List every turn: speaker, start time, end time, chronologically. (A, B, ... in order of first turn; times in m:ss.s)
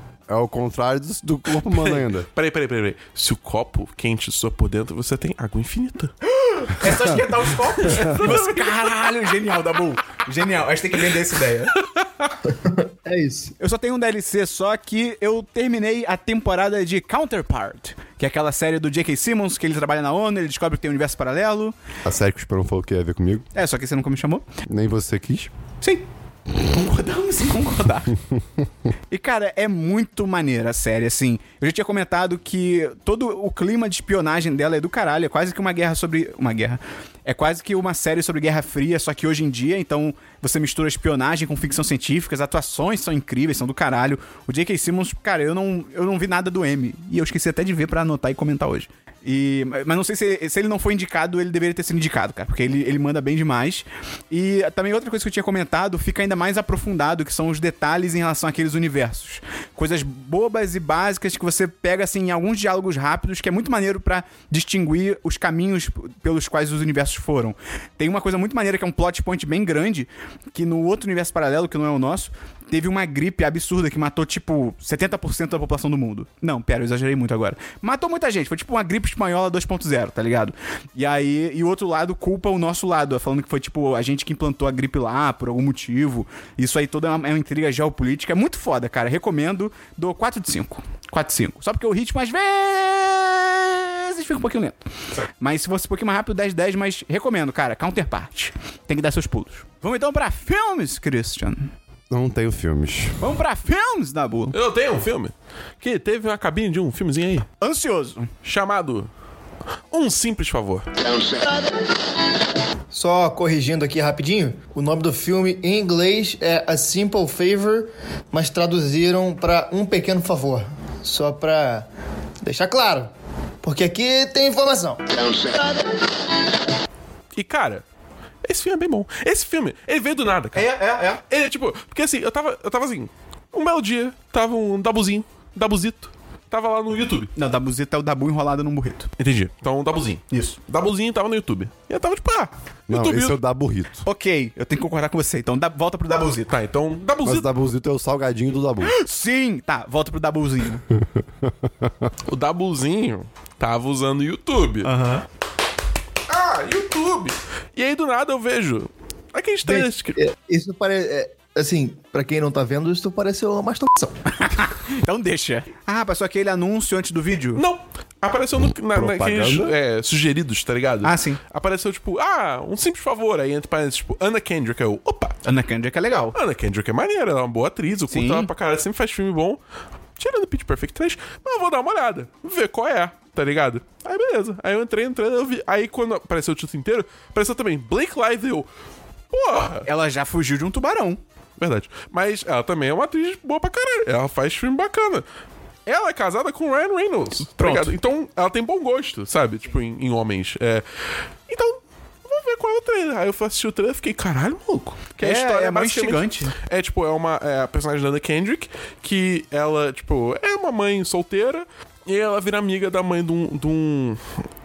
0:00.3-0:02.3 A
0:01.6-0:06.2 B
0:06.3-0:11.7 C
0:07.8-0:08.9 B
0:11.8-0:12.3 B
0:12.5-0:13.5 D
0:13.6-0:21.7 C
0:22.0-0:23.5 A
0:23.5-0:24.5 C
0:24.6-0:25.5 A
0:26.6-0:28.1 C
0:29.1-1:34.8 C
1:35.4-1:41.7 C
1:42.1-1:43.2 A
1:43.2-1:44.6 C
1:44.5-1:47.5 B
1:47.6-1:48.3 C
1:48.4-1:49.1 B
1:49.9-1:50.9 B
1:51.2-1:51.8 D
1:52.9-2:01.9 D
2:02.4-2:03.1 D
2:03.6-2:06.0 D
2:07.4-2:07.8 B
2:08.4-2:10.7 B
2:10.6-2:11.2 C
2:11.3-2:17.3 B
2:17.4-2:19.1 C
2:19.2-2:23.4 B
2:20.3-2:20.6 C
2:22.9-2:24.0 A
2:24.0-2:26.5 C
2:26.5-2:27.5 B
2:27.2-2:28.9 A
2:28.8-2:30.8 C
2:31.5-2:32.1 A
2:32.2-2:34.9 B
2:34.8-2:35.2 C
2:36.3-2:40.2 B
2:39.7-2:44.2 D
2:44.3-2:47.6 C
2:47.6-2:55.4 B
2:48.9-2:49.7 A
2:51.0-2:51.4 C
2:55.4-2:56.4 C
2:56.3-2:59.6 B
2:58.1-2:58.5 C
3:00.2-3:08.7 B
3:09.3-3:09.9 B
3:09.9-3:11.2 C
3:11.6-3:15.2 B
3:15.9-3:20.8 B
3:17.6-3:17.9 C
3:21.5-3:34.4 B
3:25.2-3:26.5 C